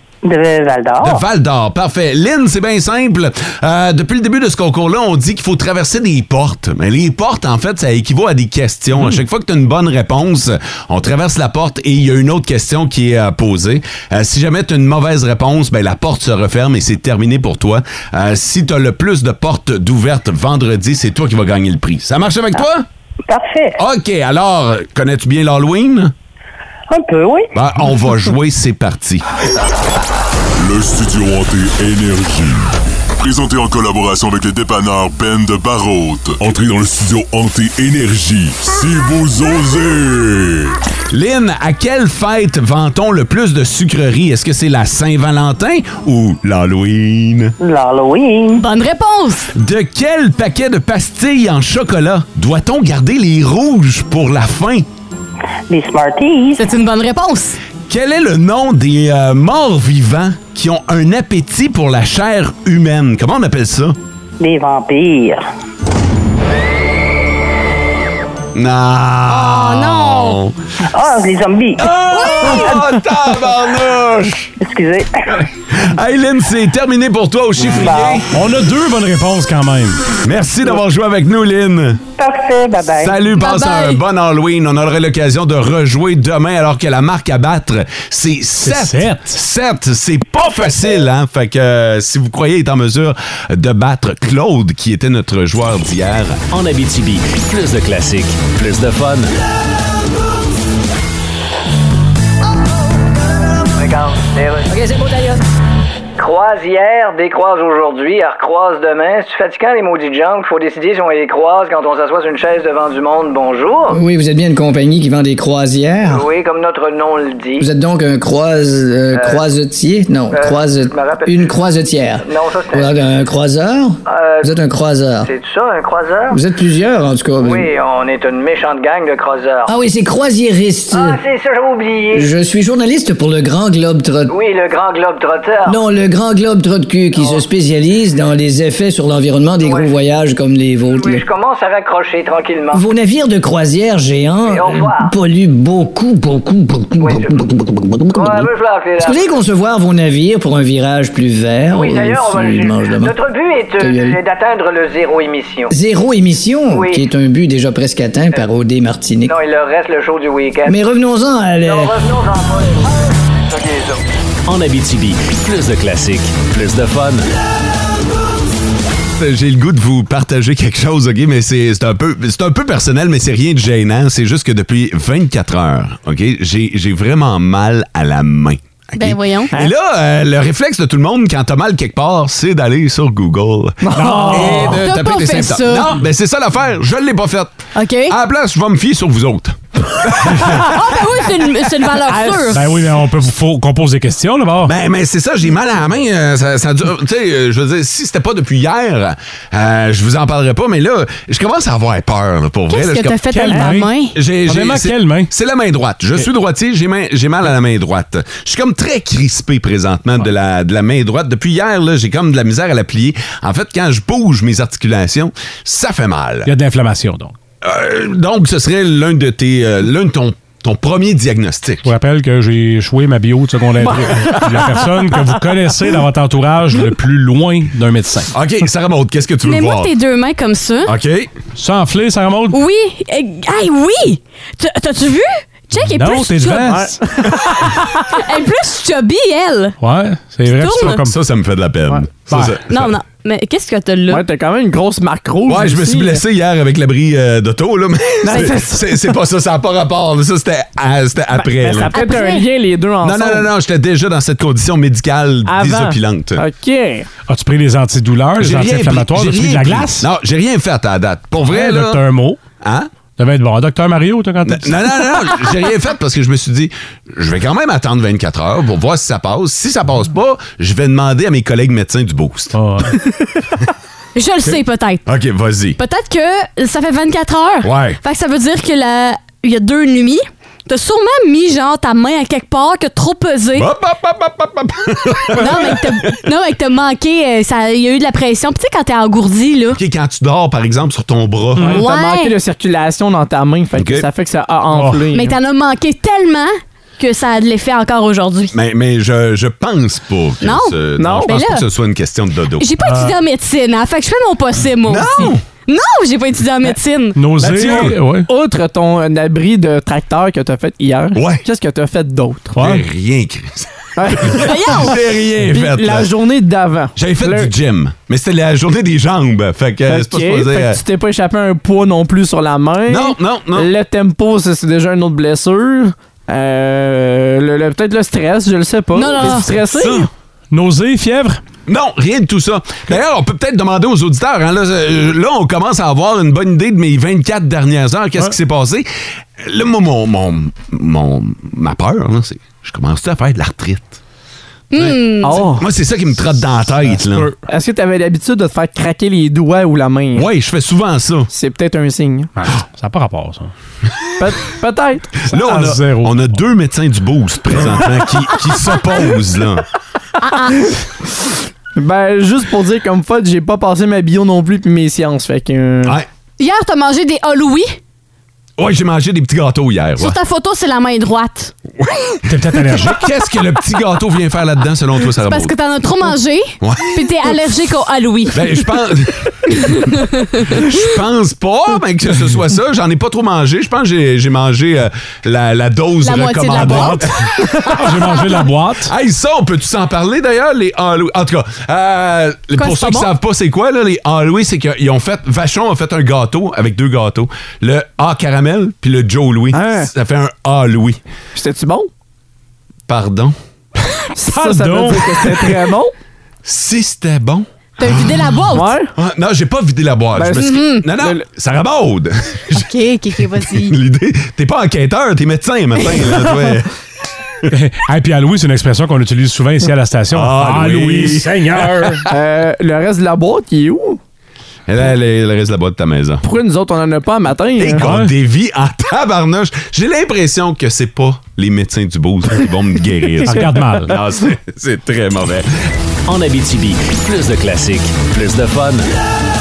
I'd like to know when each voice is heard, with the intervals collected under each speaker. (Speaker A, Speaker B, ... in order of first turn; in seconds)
Speaker A: 0.2-1.2, 23.3-23.8, 26.9-27.5, 47.6-48.6, 55.7-56.6, 64.4-65.4, 70.9-71.9, 74.6-75.4, 77.8-78.2, 82.2-83.2
Speaker B: 1.0-22.9, 23.8-26.1, 27.5-29.2, 41.1-47.5, 49.5-54.9, 57.9-64.0, 68.5-70.5, 71.8-74.5, 75.7-78.3, 80.2-82.0, 83.0-96.4, 169.2-187.5, 188.1-190.6, 194.7-203.2, 204.1-216.5, 217.6-221.8, 228.3-229.9, 230.9-231.3, 240.7-242.9, 245.5-251.9, 253.0-256.4, 258.4-262.0, 262.6-262.9, 264.4-272.6, 275.1-275.8, 277.6-278.0, 283.6-286.1, 289.7-291.8, 293.8-294.1, 298.5-302.7, 304.9-305.4, 307.4-308.0, 311.1-311.4, 312.6-316.1, 317.0-320.8, 322.9-323.7, 331.7-338.9, 339.4-344.0, 344.8-345.0, 345.6-347.3, 350.1-351.3, 355.3-359.7, 368.6-370.2, 372.7-375.5, 376.6-377.0, 378.3-379.8, 380.5-388.2, 388.8-401.0, 402.9-403.4, 406.4-408.4, 408.9-412.7, 413.4-416.7, 420.1-421.9, 424.7-426.2, 427.6-435.5
Speaker C: 30.6-40.7
Speaker D: 48.5-49.5, 56.6-57.6, 69.3-70.4, 72.1-72.6, 83.4-84.0, 178.9-179.5, 184.5-185.9, 187.8-188.2, 190.4-192.7, 202.7-204.2, 229.4-230.9, 232.5-236.9, 238.1-239.8, 240.6-241.0, 242.7-244.2, 251.9-252.5, 274.1-275.0, 275.8-283.7, 285.3-289.8, 291.7-292.4, 295.1-298.6, 300.4-301.6, 302.6-307.2, 314.3-314.9, 328.9-329.5, 344.7-345.4, 360.2-360.6, 366.4-367.8, 370.0-371.5, 375.2-378.6, 379.7-380.6, 386.0-387.1, 392.6-393.1, 407.8-408.8, 410.4-410.9, 412.5-413.8
Speaker E: 78.3-80.0, 88.6-89.3, 183.9-184.7, 192.5-194.7, 203.3-203.9, 204.5-205.3, 216.5-217.3, 221.8-228.3, 231.6-232.6, 235.8-237.0, 239.8-241.2, 242.3-242.6, 257.3-260.1, 261.5-262.4, 263.2-265.0, 272.6-273.0, 294.7-295.0, 302.8-303.2, 307.2-308.3, 312.6-312.9, 330.5-331.4, 346.9-347.3, 352.4-353.5, 355.3-356.2, 372.3-373.0, 386.6-387.1, 387.7-388.9, 404.3-405.6, 417.5-422.1, 427.8-428.1, 433.2-433.9
Speaker F: 96.5-99.3, 164.5-167.3, 436.1-438.9
Speaker G: 103.8-104.7, 106.2-114.0, 116.1-117.7, 119.1-119.4, 120.3-121.5, 122.2-123.0, 124.1-124.5, 125.2-126.4, 127.4-129.7, 130.9-132.3, 134.3-135.8, 137.2-137.4, 139.6-139.9, 140.9-142.8, 144.4-145.1, 147.0-147.4, 148.1-149.4, 151.7-155.7, 156.7-157.1, 159.2-160.8, 161.6-162.9, 163.5-164.0
Speaker H: 113.9-116.3, 117.6-125.3, 126.3-127.7, 129.7-131.2, 132.1-134.3, 135.7-141.2, 142.7-148.5, 149.0-153.2, 153.8-154.2, 155.7-159.3, 160.7-162.0
Speaker I: 183.8-184.6, 192.1-192.8, 223.8-225.4, 236.7-238.0, 244.1-246.2, 248.2-248.9, 251.3-253.5, 255.4-257.1, 291.6-295.4, 301.0-301.4, 307.4-312.6, 314.0-314.8, 315.5-317.5, 319.9-330.1, 345.2-345.7, 347.5-350.3, 351.3-352.3, 354.2-355.2, 361.8-366.0, 399.5-399.9, 401.4-401.9, 404.2-405.9, 408.5-408.9, 410.1-411.2, 422.1-424.0, 426.2-427.9